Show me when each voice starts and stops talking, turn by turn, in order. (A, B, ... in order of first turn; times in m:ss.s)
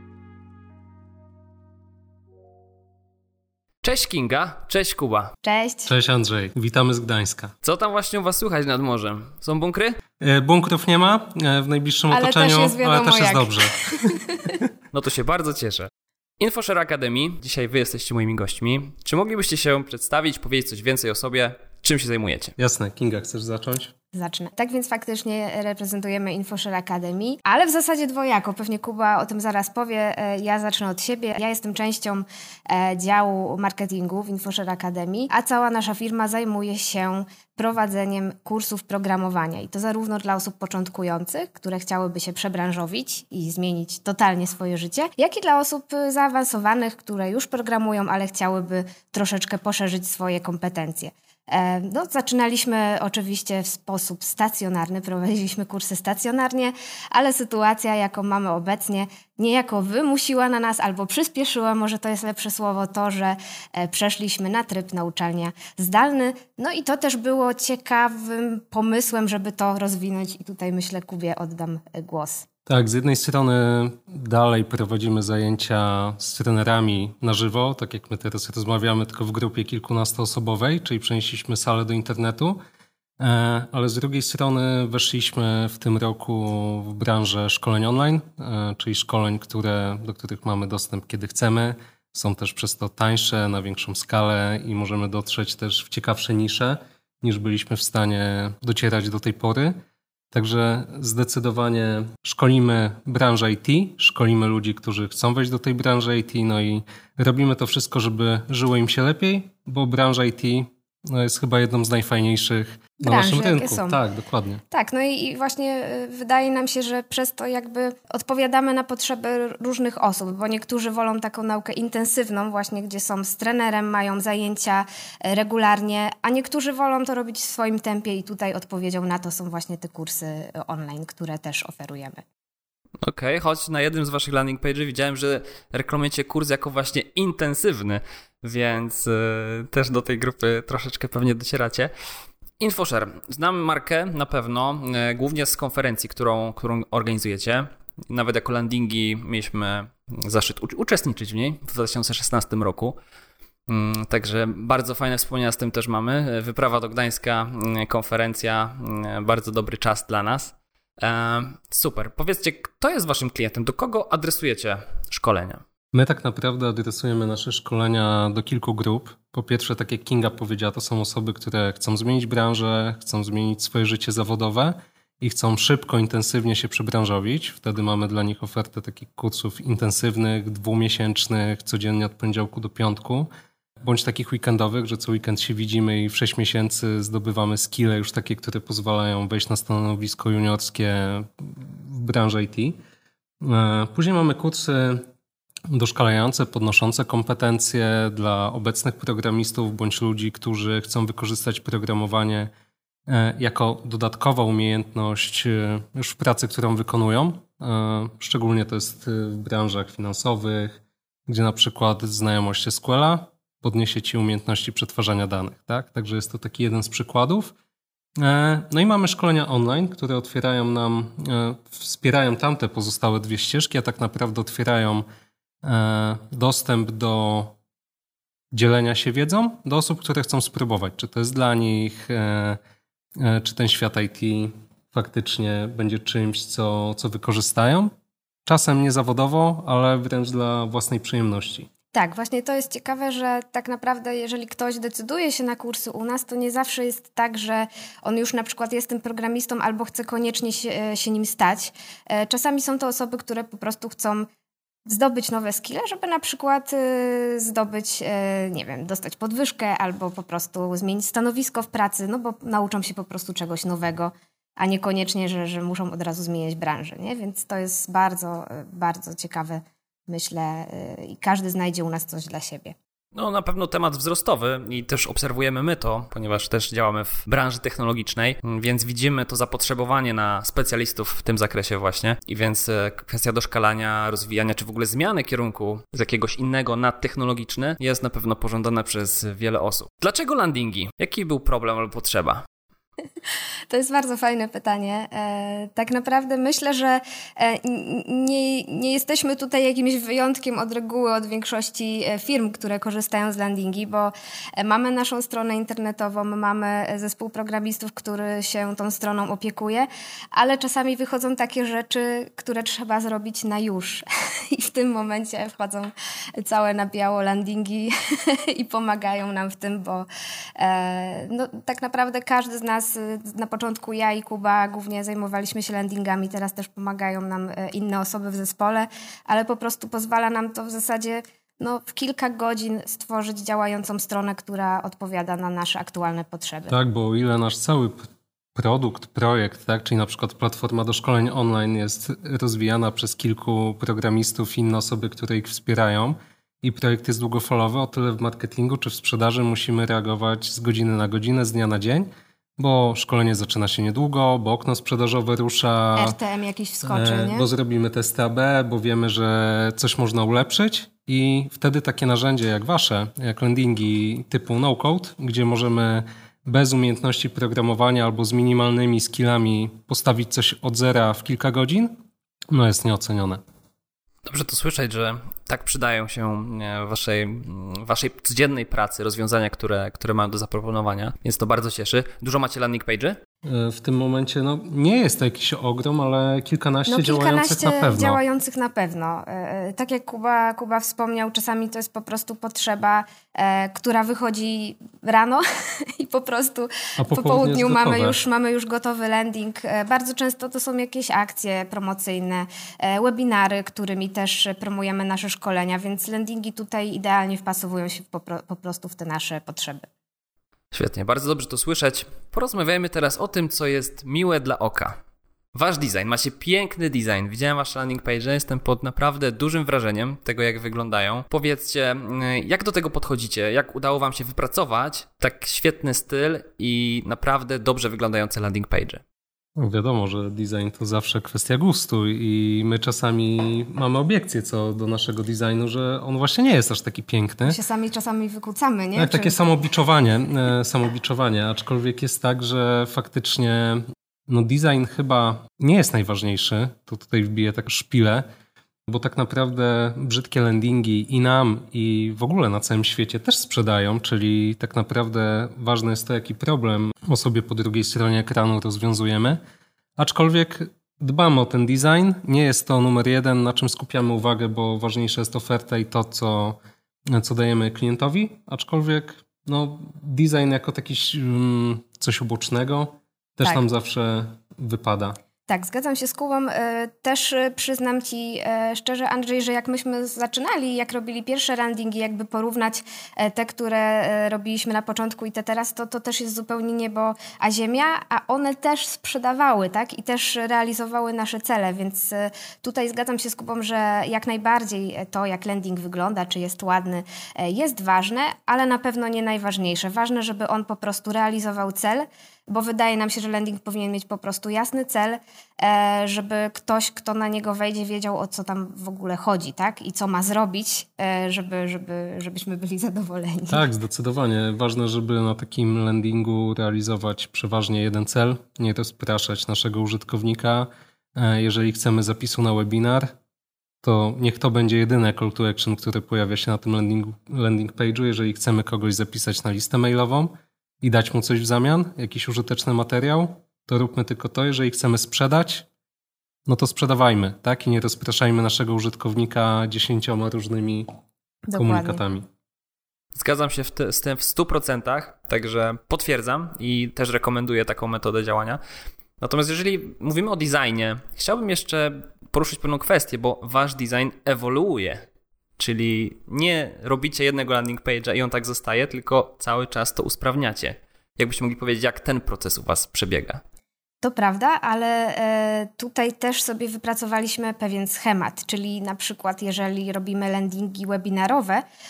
0:03.8-0:05.3 A
0:05.4-0:05.9 B
0:05.8-0:07.5 C
0:07.6-0:10.0 A
0:10.2-0:14.2 C
0:12.1-0:14.6 B
0:14.9-0:15.9 A
0:16.4-0:22.5 A
0:22.6-0:23.9 C
0:24.1-1:12.5 B
1:12.7-1:22.6 C
1:23.2-1:39.8 C
1:40.3-1:54.6 C
1:53.0-1:54.0 B
1:54.7-2:12.2 B
2:13.0-2:21.9 A
2:22.6-2:33.0 A
2:33.7-2:45.6 A
2:45.9-3:03.3 C
3:03.8-3:12.8 C
3:13.4-3:15.0 C
3:15.7-3:22.5 C
3:23.1-3:37.5 C
3:38.2-3:45.0 C
3:45.6-3:47.6 C
3:48.5-3:52.6 C
3:53.2-3:57.9 C
3:58.4-4:01.7 C
4:01.9-4:14.3 B
4:14.8-4:32.8 B
4:33.1-4:52.4 A
4:53.7-5:36.7 B
5:36.7-5:38.0 C
5:38.5-5:56.2 C
5:56.0-5:57.5 B
5:56.8-6:11.9 C
6:12.5-6:13.4 C
6:14.2-6:23.2 A
6:23.4-6:28.2 C
6:26.9-6:49.9 B
6:37.0-6:38.2 C
6:50.7-6:55.0 A
6:55.5-7:09.0 A
7:09.6-7:17.6 C
7:17.5-7:19.4 B
7:19.0-7:28.2 C
7:28.9-7:39.4 C
7:40.0-7:55.2 C
7:55.5-8:33.6 B
8:33.5-8:43.1 C
8:43.8-8:55.7 C
8:56.5-9:00.9 C
9:01.5-9:02.0 B
9:01.5-9:02.3 C
9:03.1-9:08.6 A
9:09.2-9:15.0 A
9:15.6-9:23.4 A
9:24.0-9:31.6 B